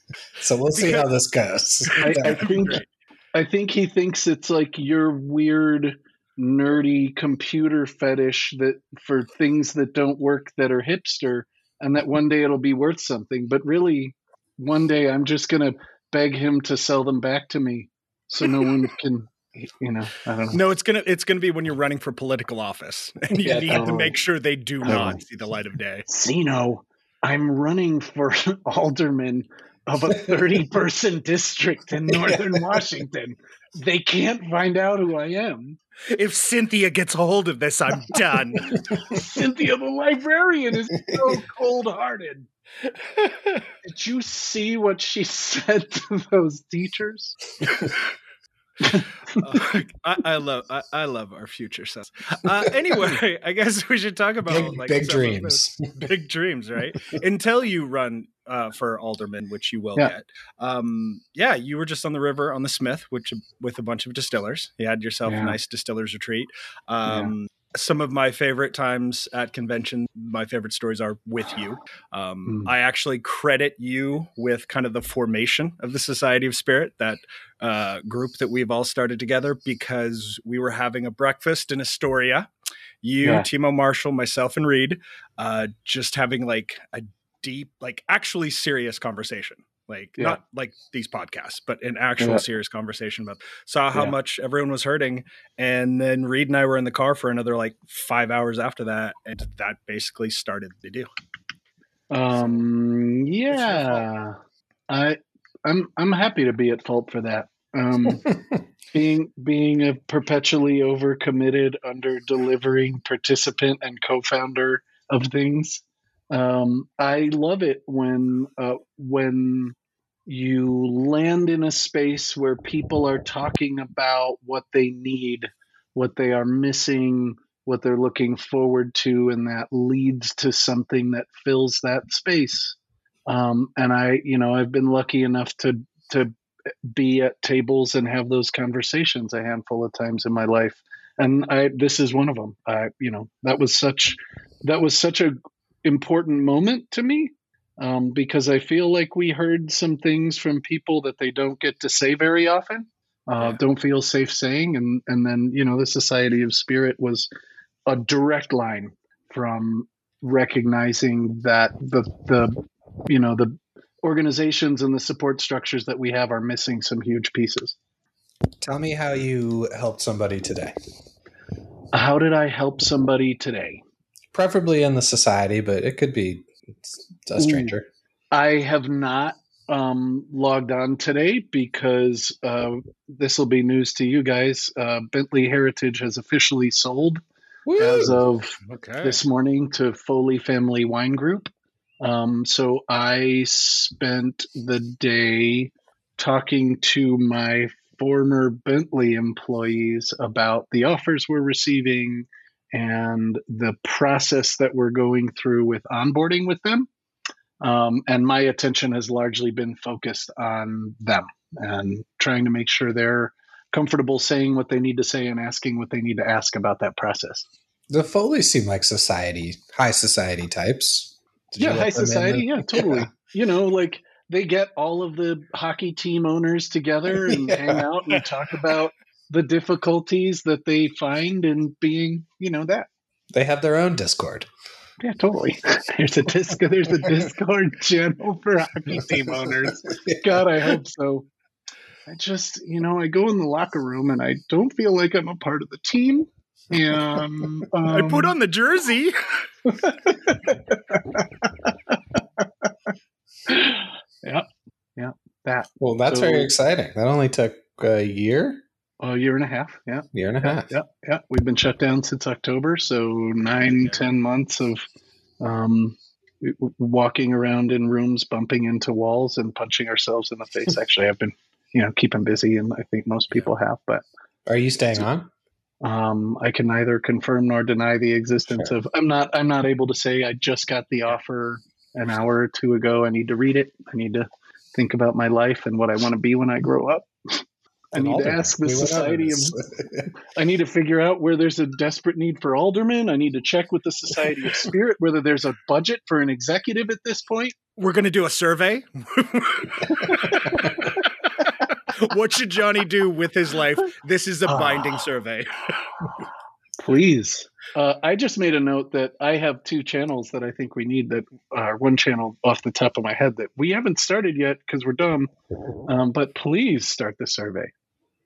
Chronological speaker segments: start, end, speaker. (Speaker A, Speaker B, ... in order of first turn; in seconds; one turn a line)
Speaker A: 0.4-2.5
Speaker B: 0.8-1.1
Speaker B: 1.9-2.8
Speaker C: 2.0-20.6
Speaker B: 20.5-26.0
Speaker A: 23.4-23.9
Speaker C: 23.7-24.2
Speaker C: 24.9-25.2
Speaker C: 26.1-35.8
Speaker A: 30.1-30.5
Speaker A: 32.1-32.9
Speaker B: 36.1-38.8
Speaker C: 38.9-42.5
Speaker A: 40.9-41.4
Speaker B: 43.0-43.7
Speaker C: 43.8-47.4
Speaker B: 49.4-82.5
Speaker A: 54.5-56.1
Speaker C: 65.2-65.6
Speaker C: 67.0-67.3
Speaker C: 72.5-72.7
Speaker B: 83.0-101.1
Speaker C: 83.2-83.5
Speaker C: 102.1-104.4
Speaker B: 102.3-102.6
Speaker B: 103.5-104.0
Speaker C: 104.9-108.2
Speaker A: 108.1-108.6
Speaker C: 108.9-119.8
Speaker C: 120.3-132.8
Speaker C: 133.3-136.3
Speaker C: 136.9-157.3
Speaker C: 157.9-167.8
Speaker A: 168.6-170.8
Speaker C: 171.9-173.8
Speaker A: 174.3-177.9
Speaker C: 177.4-177.7
Speaker C: 178.3-187.2
Speaker A: 187.7-188.2
Speaker C: 187.8-191.5
Speaker B: 188.7-189.2
Speaker C: 192.0-206.9
Speaker C: 207.6-217.5
Speaker A: 217.9-223.1
Speaker C: 221.6-232.9
Speaker A: 227.2-227.8
Speaker A: 233.3-234.5
Speaker C: 235.0-241.3
Speaker A: 239.0-240.8
Speaker C: 242.1-248.3
Speaker A: 247.1-247.5
Speaker B: 247.9-249.1
Speaker C: 249.7-252.7
Speaker C: 253.5-254.5
Speaker C: 255.0-256.5
Speaker A: 255.8-258.6
Speaker C: 259.0-264.8
Speaker A: 260.1-260.7
Speaker B: 263.7-264.0
Speaker C: 265.4-274.0
Speaker A: 274.5-275.3
Speaker C: 275.8-287.4
Speaker A: 278.5-278.7
Speaker C: 287.9-289.6
Speaker A: 287.9-290.1
Speaker C: 290.2-297.6
Speaker B: 297.8-301.0
Speaker C: 299.9-300.9
Speaker B: 301.7-305.8
Speaker C: 304.5-305.0
Speaker C: 306.8-315.3
Speaker C: 315.9-317.7